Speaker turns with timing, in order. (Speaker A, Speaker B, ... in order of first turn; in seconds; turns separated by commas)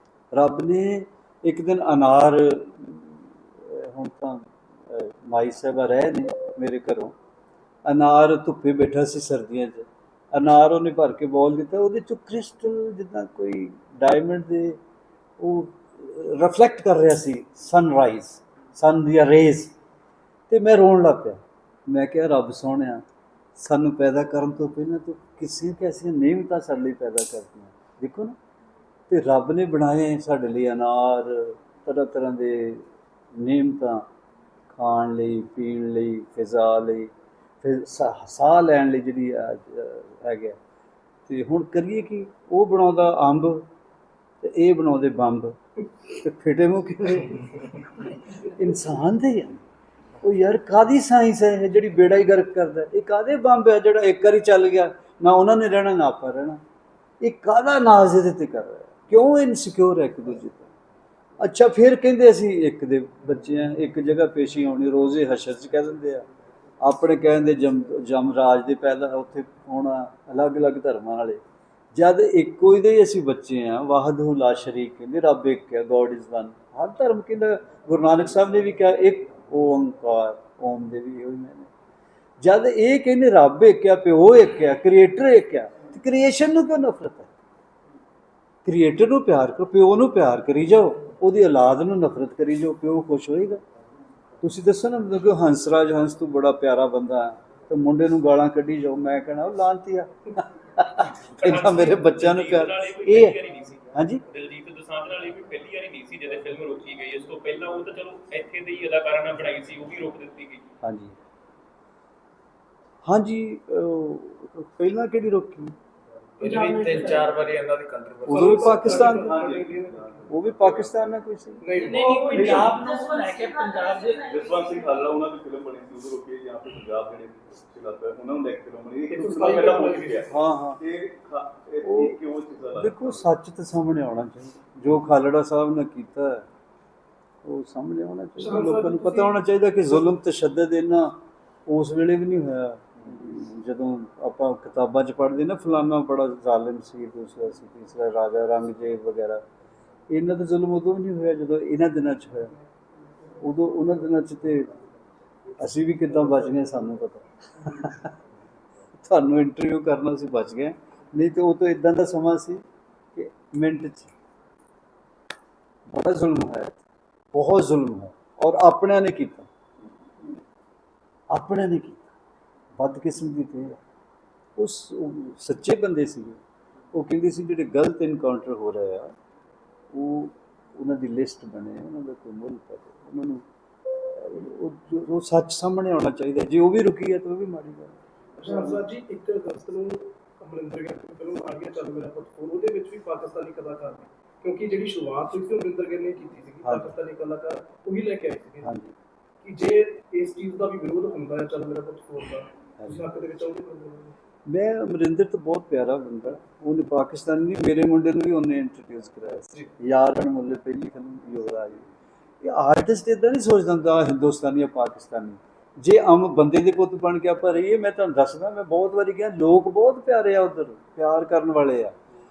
Speaker A: 0.3-7.1, Speaker A: 7.8-14.8, Speaker A: 15.4-19.7, Speaker A: 20.5-23.0, Speaker A: 23.6-28.4, Speaker A: 29.1-34.1, Speaker A: 34.7-40.6, Speaker A: 41.3-43.6, Speaker A: 44.4-45.6, Speaker A: 46.1-49.6, Speaker A: 50.2-56.6, Speaker A: 57.2-60.7, Speaker A: 61.4-66.2, Speaker A: 66.8-71.4, Speaker A: 71.9-81.7, Speaker A: 82.4-87.3, Speaker A: 88.6-93.6, Speaker A: 94.4-103.4, Speaker B: 101.3-110.7, Speaker A: 103.9-104.2, Speaker A: 110.8-111.1, Speaker A: 113.0-115.7, Speaker C: 116.4-117.4, Speaker D: 116.4-118.7, Speaker A: 118.2-119.4, Speaker E: 118.3-120.1, Speaker F: 118.6-121.2, Speaker A: 120.3-121.8, Speaker E: 121.6-122.8, Speaker C: 121.7-124.4, Speaker F: 122.3-122.8, Speaker F: 124.2-133.3, Speaker E: 129.1-130.3, Speaker A: 130.3-130.8, Speaker A: 131.8-132.2, Speaker A: 132.8-136.4, Speaker A: 137.4-149.4, Speaker E: 138.4-139.4, Speaker A: 150.1-152.5, Speaker A: 153.4-154.7, Speaker A: 155.6-158.1, Speaker A: 159.0-162.6, Speaker A: 163.2-164.1, Speaker A: 165.9-166.8, Speaker A: 167.3-169.5, Speaker A: 171.3-172.1, Speaker A: 172.8-173.8, Speaker A: 174.6-176.4, Speaker A: 176.9-179.1, Speaker A: 179.9-183.4, Speaker A: 184.1-187.9, Speaker E: 188.4-198.7, Speaker A: 196.6-197.0, Speaker A: 198.6-198.9, Speaker E: 199.4-204.1, Speaker A: 202.8-203.0, Speaker A: 204.5-211.9, Speaker A: 212.4-221.9